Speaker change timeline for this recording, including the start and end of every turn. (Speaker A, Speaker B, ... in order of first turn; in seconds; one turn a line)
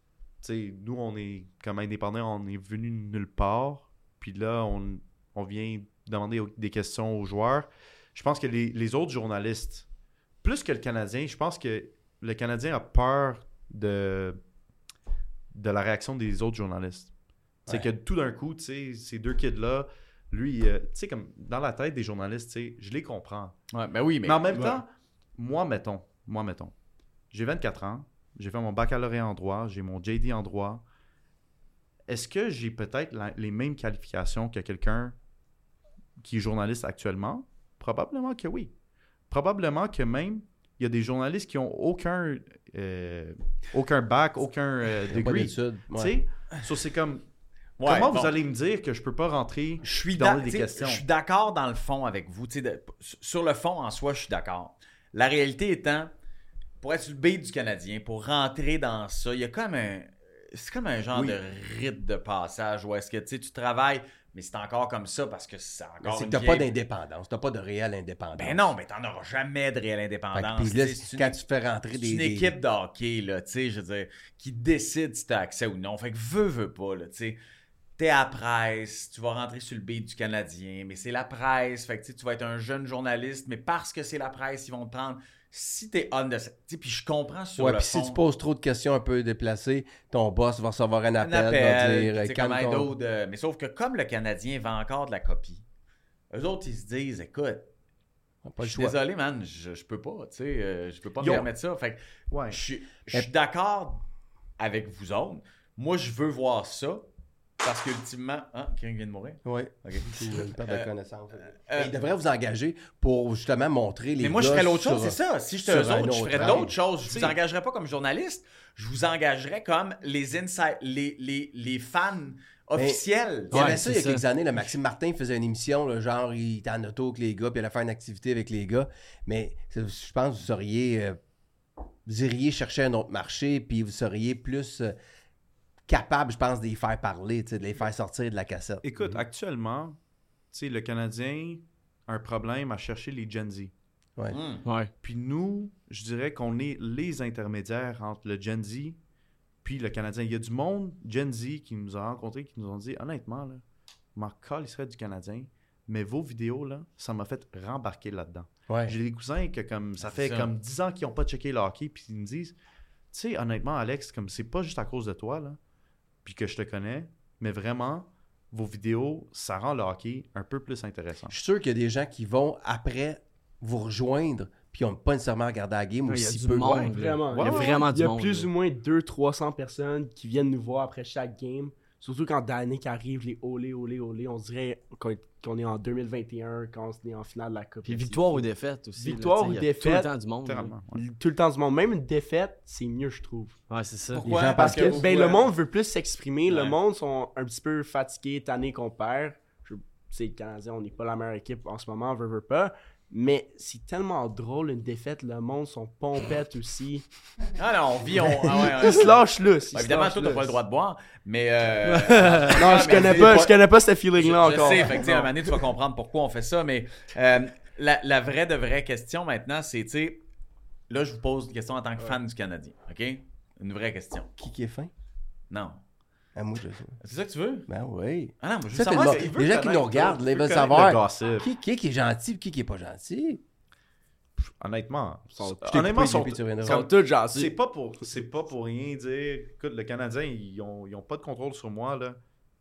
Speaker A: 0.4-9.9
Speaker A: 10.4-14.4
Speaker A: 15.5-17.1
Speaker A: 17.6-23.6
Speaker B: 23.7-24.8
Speaker A: 24.3-26.7
Speaker A: 27.3-30.8
Speaker A: 32.1-35.1
Speaker A: 36.2-38.7
Speaker A: 39.3-47.2
Speaker C: 45.1-46.2
Speaker B: 47.8-48.4
Speaker A: 47.9-51.0
Speaker B: 49.8-56.1
Speaker B: 56.8-66.7
Speaker C: 66.0-68.7
Speaker B: 68.4-71.4
Speaker C: 70.3-72.5
Speaker B: 71.9-77.4
Speaker B: 78.0-88.2
Speaker C: 87.6-92.9
Speaker B: 91.2-95.7
Speaker B: 96.3-97.7
Speaker C: 98.5-99.0
Speaker B: 98.6-104.0
Speaker A: 101.2-101.5
Speaker A: 102.3-102.6
Speaker B: 104.6-107.1
Speaker B: 107.6-112.0
Speaker C: 109.5-116.7
Speaker B: 114.2-123.8
Speaker A: 116.3-117.4
Speaker D: 123.5-124.2
Speaker C: 123.5-131.2
Speaker C: 132.1-134.9
Speaker C: 135.9-139.2
Speaker A: 138.8-140.0
Speaker A: 140.5-143.7
Speaker B: 144.3-144.7
Speaker D: 144.7-144.9
Speaker A: 145.0-149.0
Speaker A: 149.6-153.6
Speaker A: 154.2-162.6
Speaker C: 158.7-159.0
Speaker B: 160.0-160.5
Speaker A: 163.1-165.6
Speaker A: 166.2-171.4
Speaker C: 171.3-176.9
Speaker D: 176.1-178.5
Speaker E: 176.7-188.4
Speaker A: 177.3-177.8
Speaker D: 187.8-190.7
Speaker E: 189.0-190.1
Speaker A: 190.4-191.0
Speaker E: 190.9-193.6
Speaker D: 193.7-195.1
Speaker B: 194.1-195.5
Speaker E: 194.2-207.1
Speaker B: 196.5-196.8
Speaker B: 207.6-213.5
Speaker E: 208.2-210.5
Speaker D: 211.9-212.7
Speaker E: 212.5-215.3
Speaker C: 213.1-213.5
Speaker B: 214.2-220.2
Speaker B: 220.9-224.3
Speaker C: 224.4-224.9
Speaker B: 225.5-225.8
Speaker C: 226.4-227.0
Speaker B: 227.0-227.7
Speaker C: 227.7-233.4
Speaker B: 228.4-229.3
Speaker A: 228.7-231.5
Speaker A: 234.4-242.2
Speaker E: 235.3-236.0
Speaker C: 235.8-236.9
Speaker E: 236.6-237.6